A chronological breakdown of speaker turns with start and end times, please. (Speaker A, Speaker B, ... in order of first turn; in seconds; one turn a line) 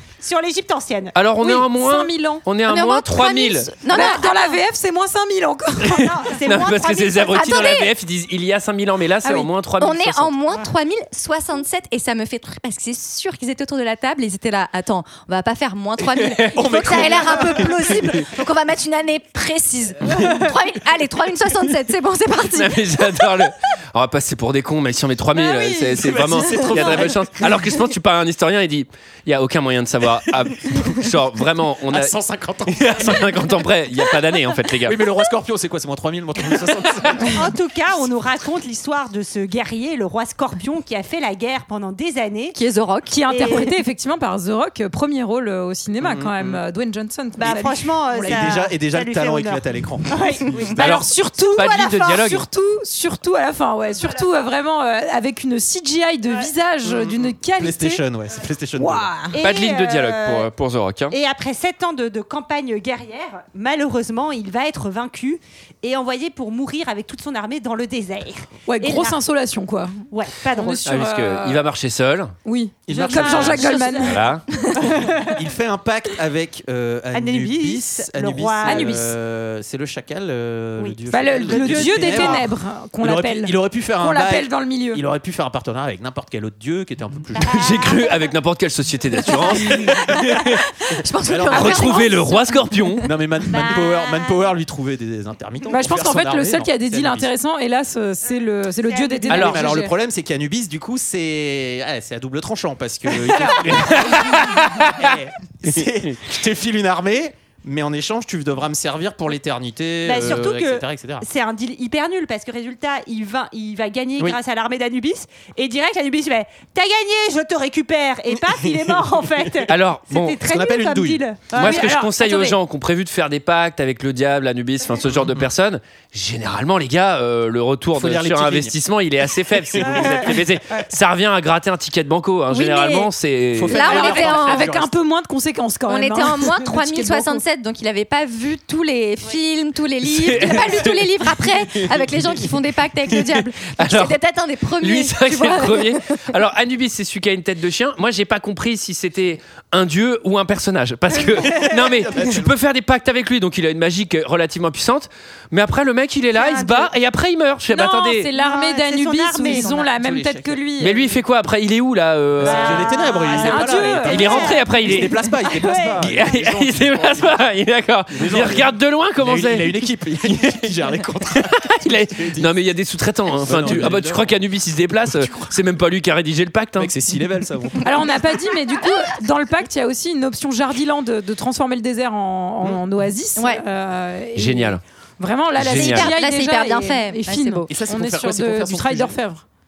Speaker A: 0.2-1.1
Speaker B: 1.1-3.7
Speaker C: 1.4-2.4
Speaker D: 2.7-4.5
Speaker C: 3.9-6.0
Speaker B: 5.8-10.3
Speaker A: 5.8-7.4
Speaker D: 7.2-7.9
Speaker C: 9.2-9.5
Speaker D: 9.8-23.4
Speaker B: 16.0-16.7
Speaker E: 16.5-18.3
Speaker B: 22.5-32.1
Speaker C: 25.3-26.0
Speaker E: 25.8-27.5
Speaker E: 31.9-33.6
Speaker B: 32.7-35.0
Speaker E: 34.8-37.5
Speaker A: 37.3-42.6
Speaker D: 42.5-43.2
Speaker C: 43.2-48.6
Speaker A: 43.3-43.7
Speaker E: 46.0-46.6
Speaker A: 47.4-50.8
Speaker E: 48.2-50.7
Speaker C: 50.6-58.0
Speaker B: 50.8-52.4
Speaker E: 56.9-59.1
Speaker C: 58.8-59.3
Speaker A: 59.3-60.5
Speaker B: 59.4-61.1
Speaker A: 61.1-69.2
Speaker C: 68.7-70.0
Speaker A: 70.1-71.0
Speaker C: 70.6-71.6
Speaker B: 70.8-72.3
Speaker C: 72.4-75.0
Speaker E: 72.9-73.8
Speaker A: 73.0-74.1
Speaker B: 74.1-74.4
Speaker E: 75.0-87.8
Speaker A: 77.1-79.0
Speaker C: 78.6-79.1
Speaker A: 80.8-82.5
Speaker C: 81.1-85.0
Speaker A: 87.4-88.1
Speaker B: 87.5-90.6
Speaker E: 89.3-90.4
Speaker D: 89.6-90.2
Speaker D: 90.8-93.1
Speaker E: 91.2-92.1
Speaker B: 91.4-93.1
Speaker E: 93.0-97.3
Speaker A: 93.5-94.5
Speaker C: 95.7-99.9
Speaker A: 98.8-99.7
Speaker B: 99.3-99.6
Speaker E: 99.3-111.2
Speaker A: 103.3-103.6
Speaker B: 103.6-105.0
Speaker A: 110.0-122.5
Speaker B: 119.7-120.4
Speaker E: 120.4-121.7
Speaker B: 121.5-133.8
Speaker E: 127.9-128.8
Speaker E: 129.4-130.4
Speaker A: 129.8-130.9
Speaker D: 132.5-133.1
Speaker E: 133.5-134.9
Speaker D: 133.7-134.7
Speaker C: 133.7-137.4
Speaker D: 135.9-146.2
Speaker B: 140.0-141.8
Speaker B: 143.8-144.1
Speaker B: 144.8-158.3
Speaker E: 151.2-152.5
Speaker A: 156.3-156.9
Speaker C: 157.7-161.1
Speaker A: 157.8-159.8
Speaker E: 159.7-160.6
Speaker B: 160.8-162.8
Speaker E: 162.4-167.4
Speaker A: 162.4-166.3
Speaker C: 163.2-164.5
Speaker B: 164.0-165.2
Speaker B: 166.0-170.7
Speaker E: 168.1-172.5
Speaker B: 171.3-176.9
Speaker E: 173.4-174.4
Speaker E: 175.0-175.5
Speaker E: 176.8-178.0
Speaker C: 177.8-189.4
Speaker D: 183.4-183.6
Speaker B: 184.3-184.8
Speaker B: 185.5-186.1
Speaker D: 185.7-187.7
Speaker E: 187.7-189.2